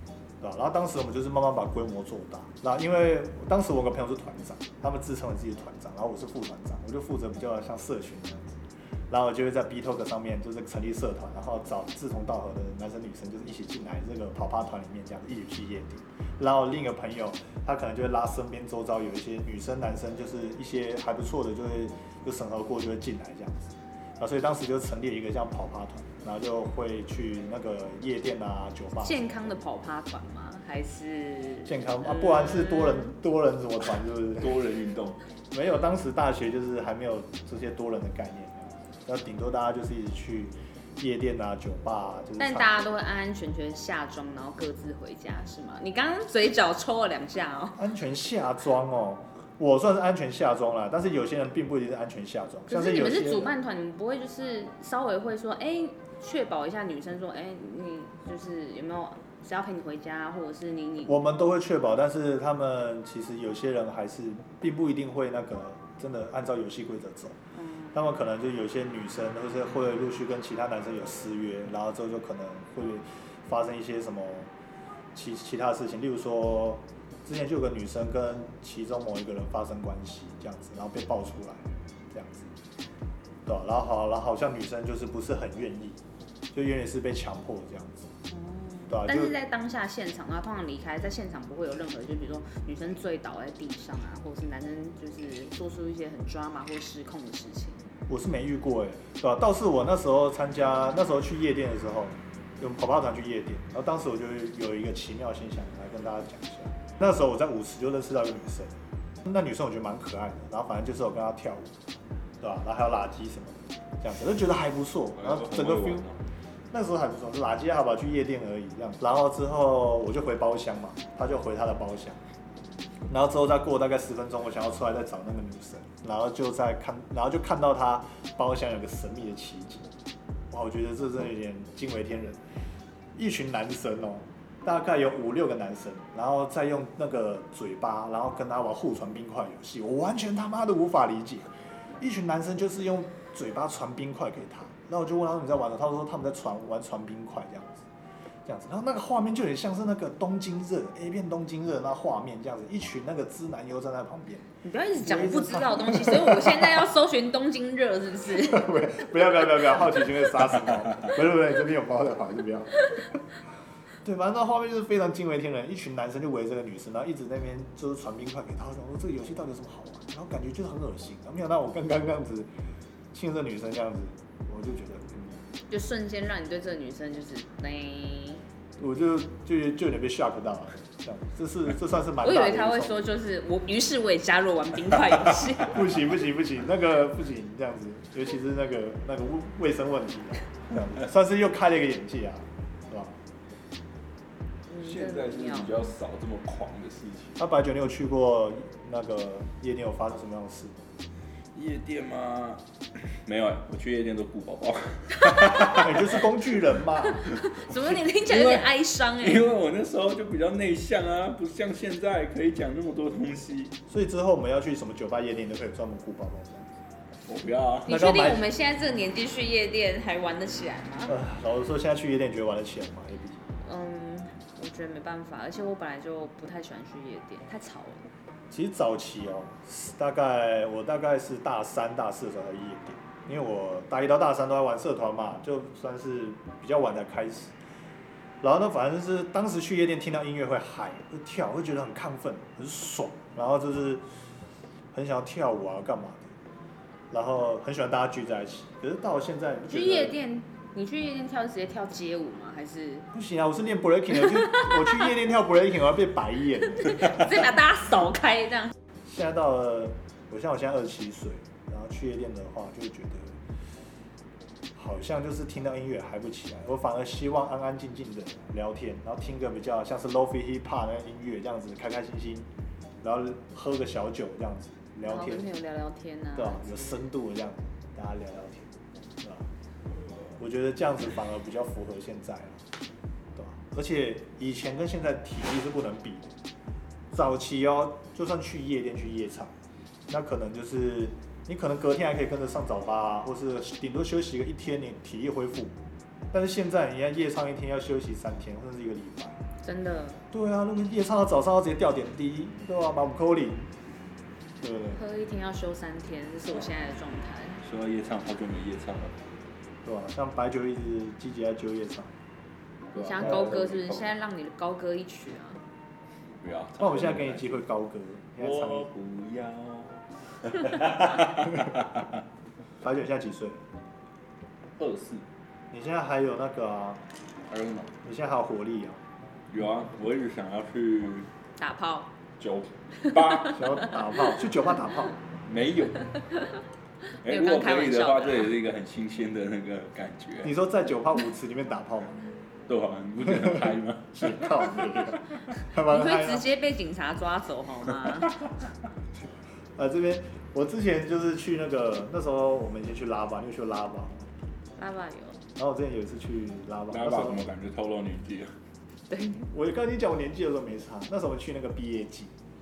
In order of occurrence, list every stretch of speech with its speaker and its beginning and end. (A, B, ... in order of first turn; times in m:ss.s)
0:00.4-0:29.6 A
0:29.0-0:33.1 B
0:31.6-0:34.6 A
0:34.4-0:35.2 C
0:35.5-0:42.9 A
0:42.4-0:47.8 B
0:47.8-0:53.5 A
0:52.7-1:01.2 B
1:01.1-1:07.4 A
1:07.5-1:08.0 B
1:07.9-1:14.5 A
1:15.1-1:22.5 A
1:23.4-1:26.0 A
1:26.5-1:28.1 A
1:28.3-1:37.9 B
1:28.9-1:29.3 A
1:38.1-1:51.8 A
1:52.4-1:56.1 A
1:55.2-1:56.2 C
1:56.7-2:02.2 A
2:03.1-2:09.9 A
2:10.5-2:12.4 A
2:13.2-2:27.8 A
2:28.4-2:34.5 A
2:34.6-2:38.7 B
2:35.0-2:36.8 A
2:38.4-2:42.8 A
2:44.0-2:52.5 A
2:53.1-2:55.4 A
2:55.7-2:58.4 B
2:58.8-3:03.0 A
3:02.2-3:05.8 B
3:05.6-3:13.1 A
3:14.7-3:15.8 B
3:14.8-3:17.4 C
3:17.4-3:20.8 A
3:21.5-3:22.6 C
3:23.2-3:26.2 C
3:25.6-3:27.2 A
3:27.0-3:29.5 B
3:28.3-3:28.7 C
3:29.2-3:33.7 C
3:33.9-3:36.8 A
3:37.2-3:37.9 C
3:37.9-3:38.4 A
3:37.9-3:41.1 B
3:41.0-3:43.4 A
3:43.6-3:48.0 B
3:48.5-3:57.5 A
3:58.4-4:04.0 A
4:04.9-4:06.3 A
4:07.1-4:10.1 A
4:09.7-4:13.1 B
4:13.1-4:17.3 A
4:14.3-4:15.0 B
4:16.7-4:18.7 B
4:19.1-4:23.4 A
4:24.7-4:32.5 A
4:33.0-4:35.5 A
4:35.0-4:37.1 B
4:36.4-4:39.5 A
4:40.4-4:42.6 A
4:43.3-4:46.3 A
4:47.1-4:49.5 A
4:50.1-4:55.8 A
4:56.3-4:59.4 A
4:59.6-5:00.2 B
5:00.3-5:03.7 A
5:04.6-5:05.0 A
5:04.9-5:07.6 B
5:07.6-5:09.1 C
5:09.8-5:12.2 A
5:12.9-5:15.6 B
5:12.9-5:14.1 C
5:13.2-5:13.6 A
5:16.4-5:17.6 C
5:16.8-5:18.9 A
5:18.4-5:22.0 C
5:22.8-5:23.6 A
5:24.8-5:25.2 C
5:25.7-5:27.0 A
5:27.5-5:27.9 C
5:28.0-5:29.0 A
5:29.5-5:31.3 C
5:31.6-5:32.1 B
5:32.4-5:33.6 C
5:33.4-5:35.2 A
5:35.4-5:36.1 C
5:37.2-5:40.5 C
5:37.3-5:38.5 B
5:40.4-5:42.2 A
5:42.7-5:45.2 C
5:43.3-5:46.5 A
5:45.9-5:48.4 B
5:49.8-5:54.3 A
5:54.8-5:55.4 B
5:55.6-5:57.4 A
5:56.9-5:58.5 C
5:59.1-5:59.4 B
5:59.4-6:02.3 A